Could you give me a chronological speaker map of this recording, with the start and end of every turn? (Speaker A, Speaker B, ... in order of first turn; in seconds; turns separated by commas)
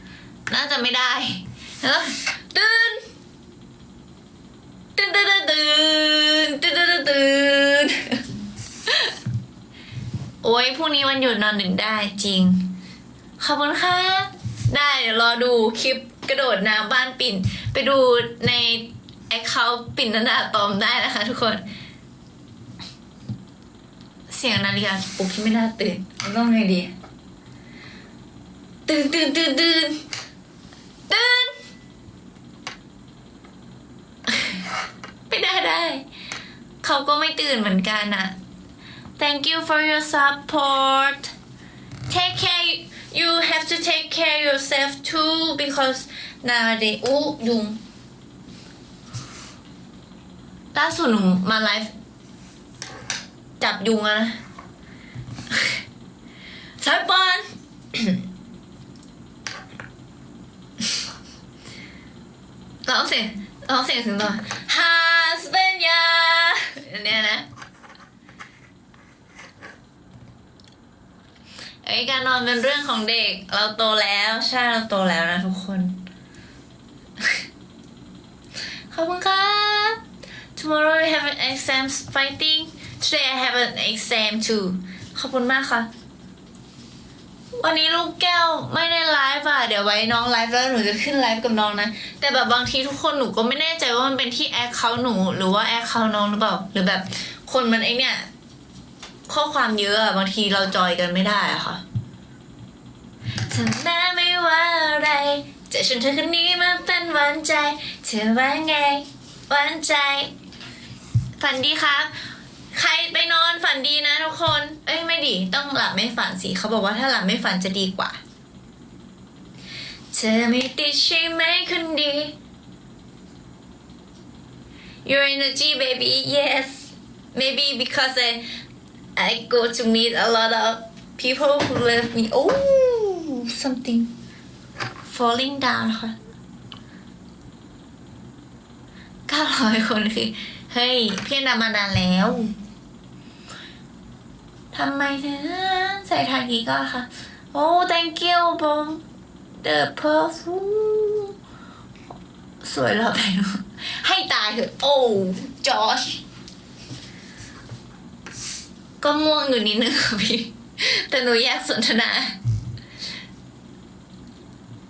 Speaker A: 0.5-3.0, Speaker A: 5.0-8.2, Speaker A: 8.9-9.1, Speaker A: 10.4-12.7, Speaker A: 13.4-21.6, Speaker A: 24.3-26.9, Speaker A: 28.9-30.0, Speaker A: 31.1-31.6, Speaker A: 34.3-34.6, Speaker A: 35.3-36.0, Speaker A: 36.8-38.3, Speaker A: 39.2-41.3, Speaker A: 42.1-47.8, Speaker A: 50.7-51.9, Speaker A: 53.6-54.4, Speaker A: 56.8-58.2, Speaker A: 62.8-67.5, Speaker A: 71.8-76.0, Speaker A: 78.9-80.0, Speaker A: 80.6-85.9, Speaker A: 87.5-98.3, Speaker A: 99.3-101.8, Speaker A: 103.5-110.3, Speaker A: 111.4-112.1, Speaker A: 112.7-118.2, Speaker A: 120.1-122.3, Speaker A: 125.0-128.4, Speaker A: 129.2-134.1, Speaker A: 135.1-136.2, Speaker A: 139.3-142.5, Speaker A: 144.7-149.0, Speaker A: 149.6-151.3, Speaker A: 152.6-156.2, Speaker A: 159.0-162.4